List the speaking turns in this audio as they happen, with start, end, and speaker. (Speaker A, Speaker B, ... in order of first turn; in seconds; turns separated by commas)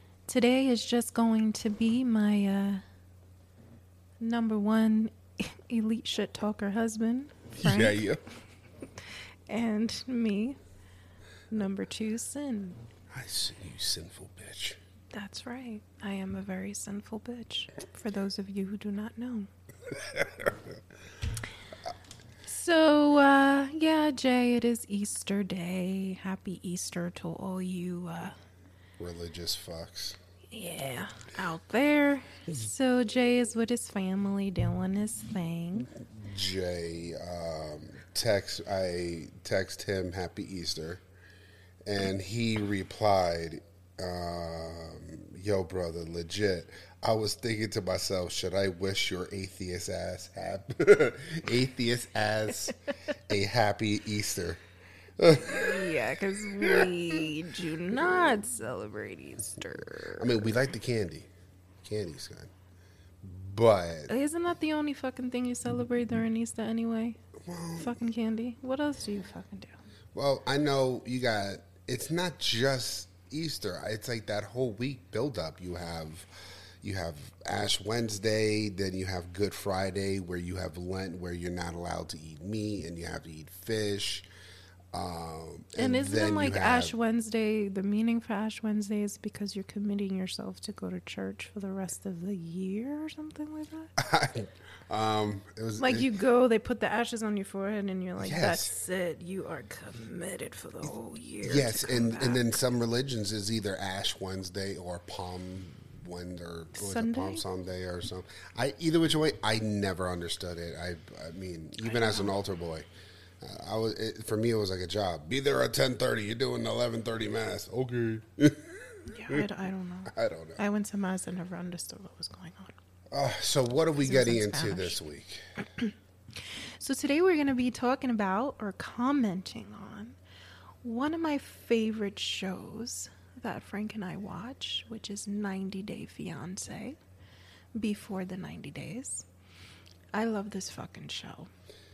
Speaker A: 0.3-2.8, Speaker A: 4.2-8.0, Speaker B: 7.6-8.2, Speaker A: 9.5-10.6, Speaker A: 11.5-12.8, Speaker B: 13.1-14.8, Speaker A: 15.1-19.5, Speaker A: 22.4-28.3, Speaker B: 29.0-30.2, Speaker A: 30.5-35.9, Speaker B: 36.0-41.0, Speaker B: 41.8-52.7, Speaker B: 53.3-54.6, Speaker B: 55.2-55.8, Speaker A: 55.5-60.5, Speaker B: 60.2-61.3, Speaker B: 61.8-62.5, Speaker B: 63.2-64.1, Speaker A: 64.1-67.2, Speaker B: 67.4-67.9, Speaker A: 67.8-69.8, Speaker B: 70.1-76.3, Speaker B: 76.8-84.3, Speaker B: 84.9-86.9, Speaker A: 85.8-93.9, Speaker B: 94.0-96.1, Speaker A: 95.8-102.5, Speaker B: 98.2-98.7, Speaker B: 101.4-112.8, Speaker A: 106.8-107.4, Speaker A: 111.8-112.3, Speaker B: 113.4-118.7, Speaker A: 119.1-122.7, Speaker B: 120.1-120.6, Speaker B: 123.1-125.4, Speaker A: 124.0-125.0, Speaker A: 126.8-130.2, Speaker A: 130.8-137.0, Speaker A: 137.7-139.2, Speaker A: 140.1-141.5